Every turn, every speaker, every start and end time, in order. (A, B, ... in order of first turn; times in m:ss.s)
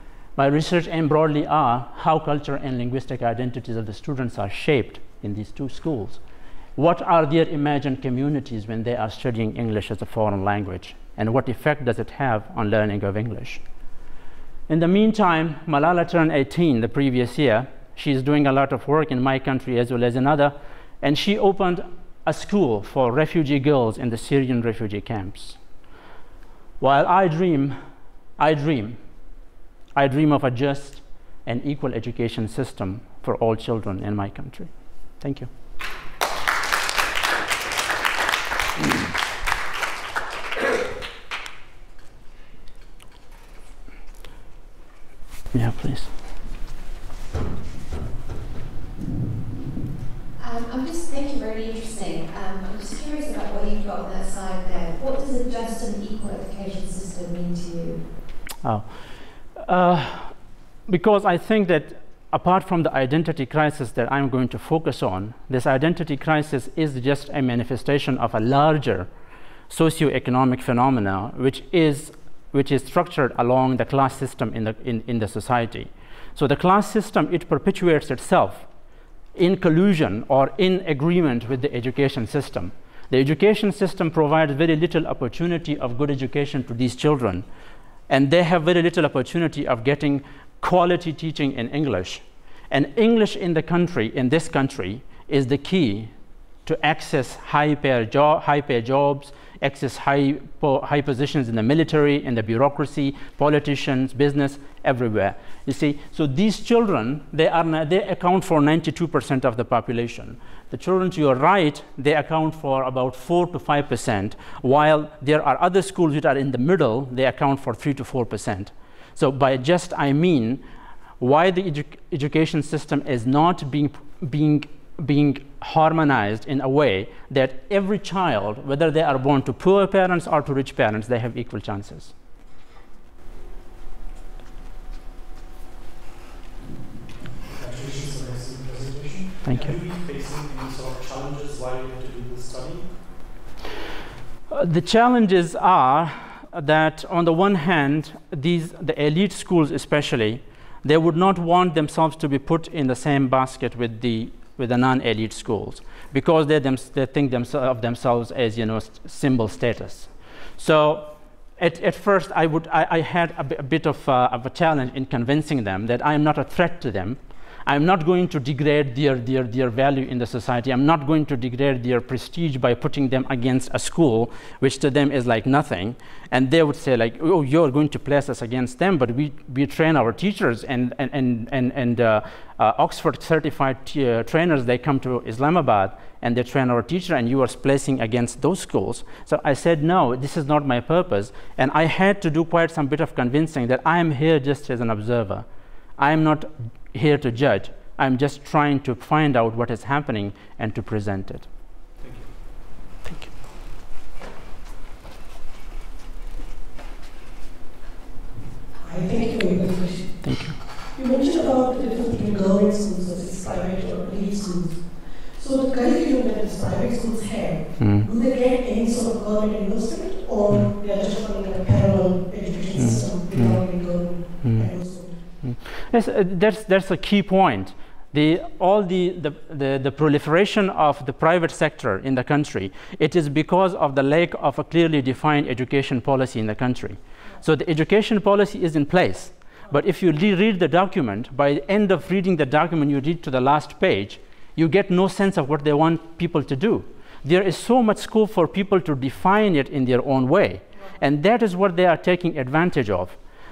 0:00.4-0:06.2 A
0:06.8-0:13.6 A
0:14.7-0:25.6 A
0:26.8-0:27.8 A
0:28.4-0:29.0 A
0:29.9-0:35.5 A
0:45.5-0:46.1 A
0:50.4-0:58.0 B
0:58.6-0:59.0 A
0:59.5-1:09.1 A
1:09.7-1:18.7 A
1:19.3-1:27.4 A
1:28.1-1:36.1 A
1:36.6-2:00.6 A
2:01.2-2:12.1 A
2:17.5-2:23.1 C
2:19.4-2:19.8 A
2:24.5-3:15.4 A
3:16.0-3:21.5 A
3:22.0-3:22.3 C
3:28.8-3:30.2 D
3:30.2-3:30.6 A
3:30.9-3:45.1 D
3:37.8-3:38.1 A
3:42.8-3:44.7 A
3:45.4-4:13.2 A